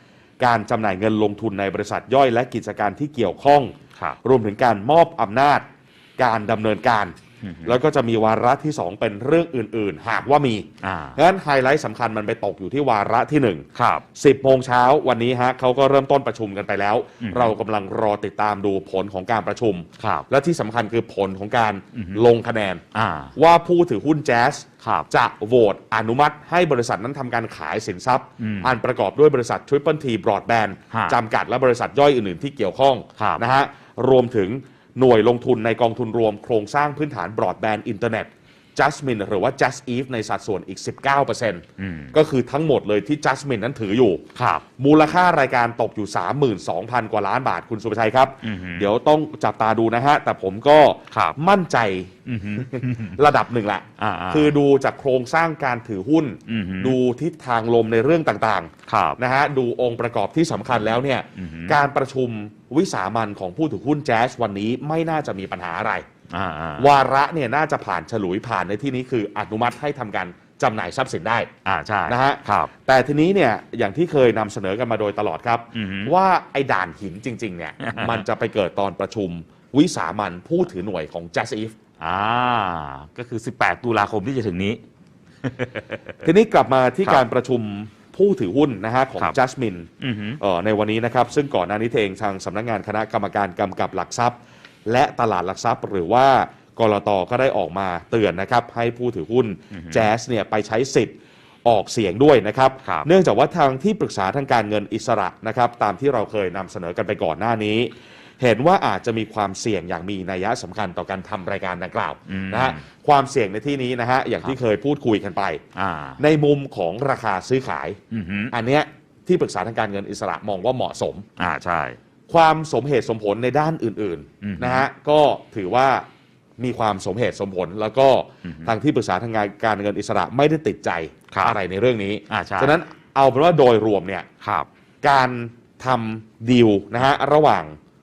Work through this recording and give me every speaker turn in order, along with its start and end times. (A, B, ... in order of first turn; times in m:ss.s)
0:00.4-0:05.6 A
0:06.2-0:22.8 A
0:07.4-0:07.8 B
0:10.8-0:11.2 B
0:13.7-0:14.0 B
0:17.2-0:17.5 B
0:20.0-0:20.3 B
0:21.9-0:22.3 B
0:22.9-0:23.3 B
0:23.3-0:44.2 A
0:24.8-0:25.1 B
0:28.4-0:28.7 B
0:30.9-0:31.2 B
0:33.2-0:33.4 B
0:41.8-0:42.1 B
0:44.3-0:44.6 B
0:44.8-1:06.0 A
0:48.4-0:48.9 B
0:51.1-0:51.4 B
0:52.3-0:53.2 B
0:54.0-0:54.5 B
0:56.5-0:57.0 B
0:58.9-0:59.2 B
1:01.3-1:01.8 B
1:06.3-1:06.9 B
1:06.8-1:11.5 A
1:11.6-1:12.7 B
1:12.1-1:21.7 A
1:15.7-1:16.1 B
1:17.8-1:18.2 B
1:22.0-1:24.8 B
1:25.4-1:26.3 B
1:26.2-1:41.1 A
1:30.0-1:30.4 B
1:39.7-1:40.1 B
1:41.6-1:55.6 A
1:52.3-1:52.8 B
1:55.7-1:56.2 B
1:56.2-1:58.0 A
1:58.1-1:58.5 B
1:58.5-2:01.2 A
2:01.4-2:02.0 B
2:02.3-2:06.0 A
2:04.4-2:04.8 B
2:06.6-2:14.3 A
2:08.4-2:08.8 B
2:11.3-2:11.6 B
2:12.3-2:12.8 B
2:14.4-2:14.7 B
2:15.0-2:17.8 A